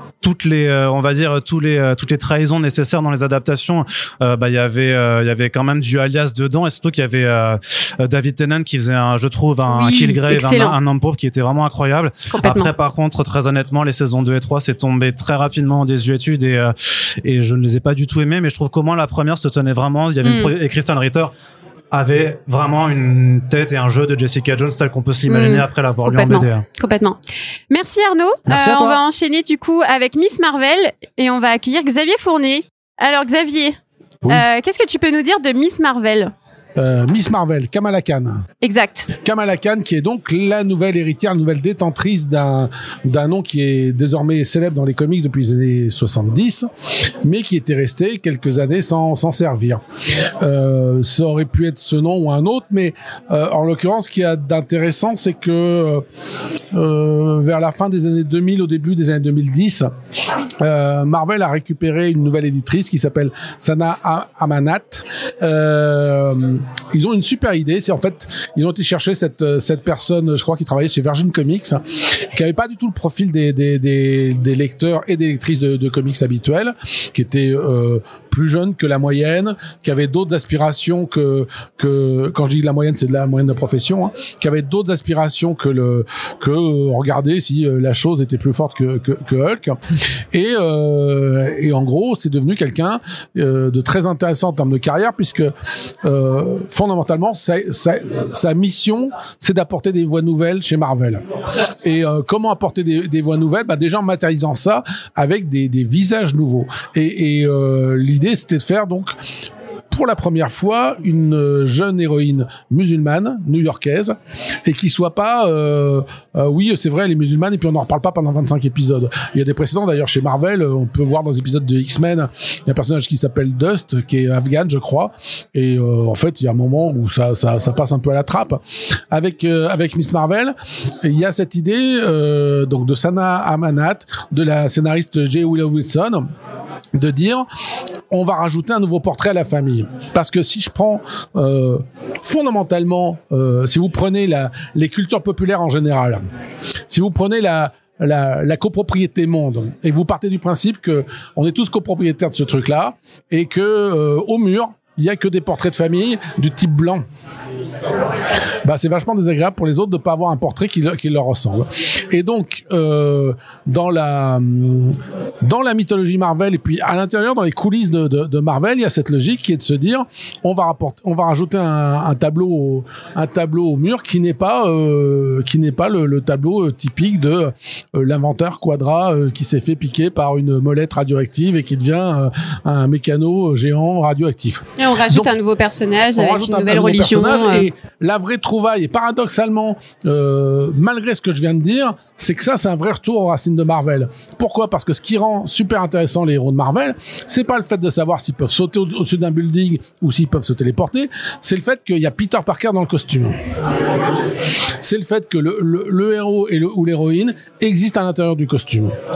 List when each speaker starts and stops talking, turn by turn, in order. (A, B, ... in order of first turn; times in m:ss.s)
0:00.2-0:21.3 A
0:09.7-0:10.8 B
0:12.3-0:12.7 B
0:20.2-0:20.5 B
0:21.9-0:26.7 A
0:25.3-0:27.2 B
0:27.7-0:36.3 B
0:28.5-0:29.0 A
0:36.8-0:38.4 C
0:38.6-0:39.1 B
0:39.2-0:46.7 C
0:47.2-0:49.8 C
0:50.4-0:56.0 C
0:56.7-0:59.9 C
1:00.6-1:29.8 C
1:30.3-1:35.5 C
1:36.0-1:41.2 C
1:41.8-1:49.1 C
1:49.9-1:54.2 C
1:54.7-2:08.6 C
2:09.1-2:16.2 C
2:17.0-2:17.5 C
2:18.1-2:26.2 C
2:26.9-2:37.0 C
2:38.6-3:05.3 C
3:04.8-3:07.7 B
3:06.2-3:23.4 C
3:24.8-3:28.9 C